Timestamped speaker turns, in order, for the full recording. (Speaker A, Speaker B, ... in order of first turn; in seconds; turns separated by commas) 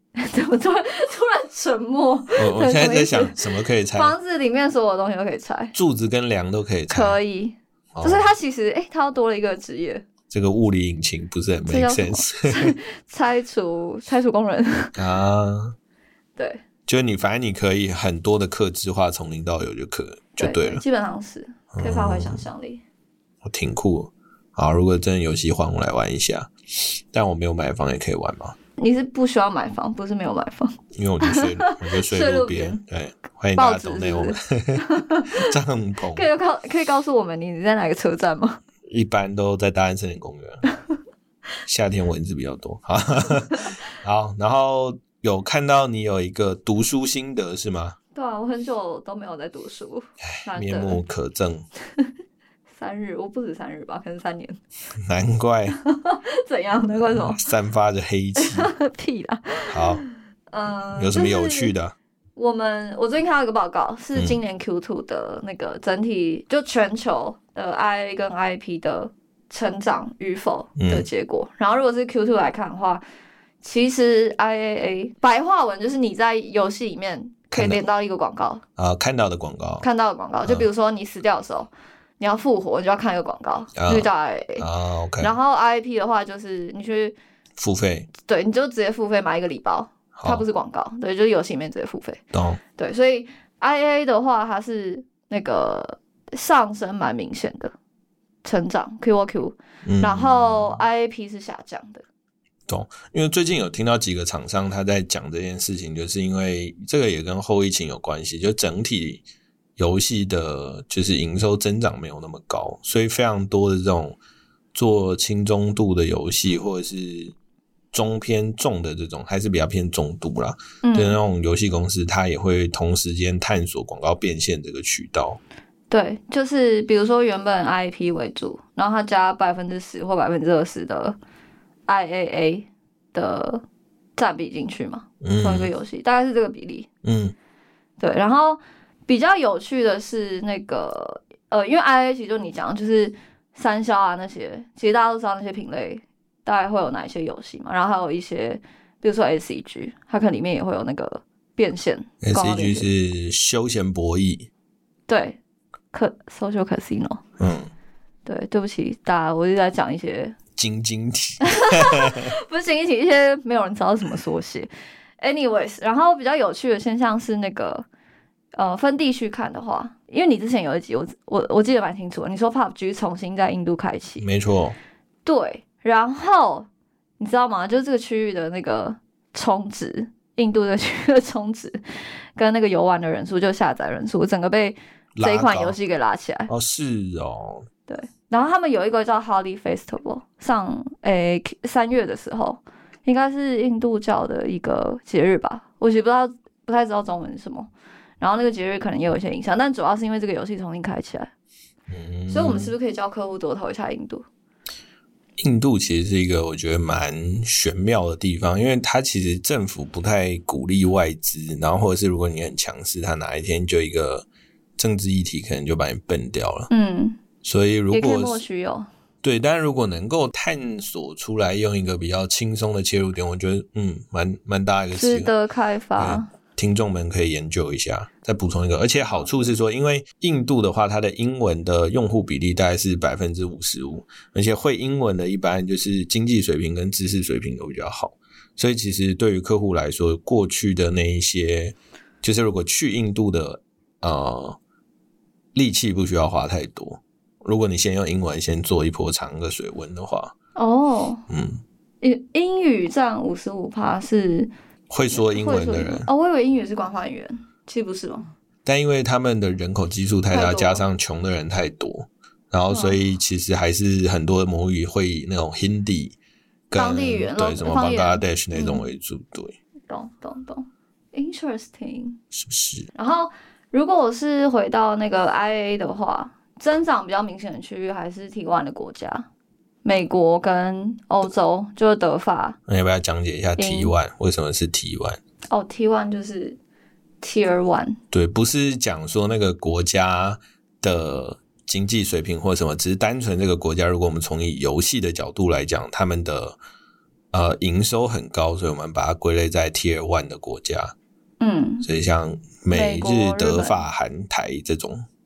Speaker A: 0.2-5.7, Speaker B: 2.4-4.2, Speaker B: 5.7-7.2, Speaker A: 6.9-10.1, Speaker B: 8.0-8.3, Speaker B: 10.3-12.8, Speaker A: 11.7-14.9, Speaker B: 14.9-15.8, Speaker A: 16.4-16.6, Speaker B: 16.9-20.8, Speaker A: 20.4-22.8, Speaker B: 21.7-22.4, Speaker B: 23.4-28.6, Speaker A: 28.8-32.8, Speaker B: 30.9-34.8, Speaker A: 33.5-35.4, Speaker B: 35.4-36.3, Speaker A: 36.1-38.6, Speaker B: 38.9-40.6, Speaker B: 41.7-48.0, Speaker A: 48.1-51.0, Speaker B: 50.4-51.7, Speaker A: 52.7-54.6, Speaker B: 55.1-55.8, Speaker A: 55.8-57.5, Speaker B: 57.0-58.7, Speaker A: 58.4-61.7, Speaker B: 59.7-60.0, Speaker B: 61.0-62.0, Speaker A: 62.4-73.0, Speaker B: 70.8-71.1, Speaker A: 73.6-78.6, Speaker B: 77.5-77.8, Speaker B: 78.8-79.8, Speaker A: 79.8-84.7, Speaker B: 83.8-85.3, Speaker A: 85.2-87.2, Speaker B: 87.6-88.1, Speaker A: 88.2-92.2, Speaker B: 90.2-90.5, Speaker B: 92.3-92.6, Speaker A: 92.8-97.7, Speaker A: 98.4-102.0, Speaker B: 99.9-100.3, Speaker B: 102.7-109.2, Speaker B: 109.8-114.2, Speaker B: 114.7-117.3, Speaker B: 117.9-125.4, Speaker A: 120.8-121.2, Speaker A: 125.9-131.2, Speaker A: 131.9-133.6, Speaker A: 134.2-136.9, Speaker B: 135.2-135.7, Speaker B: 137.0-137.3, Speaker A: 138.0-152.9, Speaker B: 152.2-154.5, Speaker A: 155.1-155.4, Speaker A: 155.9-157.2, Speaker B: 157.4-157.7, Speaker A: 158.2-160.4, Speaker B: 160.6-162.3, Speaker A: 161.4-167.9, Speaker A: 168.5-174.2, Speaker B: 174.2-174.8, Speaker A: 175.2-176.7, Speaker A: 177.2-181.8, Speaker A: 182.4-186.5, Speaker B: 185.2-185.8, Speaker B: 186.5-187.7, Speaker A: 187.9-201.3, Speaker B: 201.9-202.8, Speaker A: 202.3-204.2, Speaker B: 205.4-214.2, Speaker B: 214.8-216.7, Speaker A: 216.7-217.2, Speaker B: 217.4-218.4, Speaker A: 217.9-218.9, Speaker B: 219.2-225.3, Speaker A: 224.9-226.3, Speaker B: 226.0-244.6, Speaker A: 229.1-229.6, Speaker B: 245.6-250.3, Speaker A: 250.6-251.2, Speaker B: 251.3-251.6, Speaker A: 252.0-254.5, Speaker B: 254.9-256.1, Speaker A: 255.1-258.3, Speaker B: 258.6-266.2, Speaker A: 260.3-260.8, Speaker A: 262.7-263.0, Speaker B: 266.7-269.6, Speaker A: 266.7-268.9, Speaker A: 269.9-272.2, Speaker B: 272.3-272.9, Speaker A: 272.9-279.2, Speaker A: 279.8-282.6, Speaker B: 282.7-285.2, Speaker A: 283.6-283.9, Speaker A: 285.5-286.6, Speaker A: 287.2-288.0, Speaker B: 288.1-296.6, Speaker B: 297.3-300.9, Speaker A: 301.4-301.9, Speaker B: 301.8-305.1, Speaker A: 302.7-303.8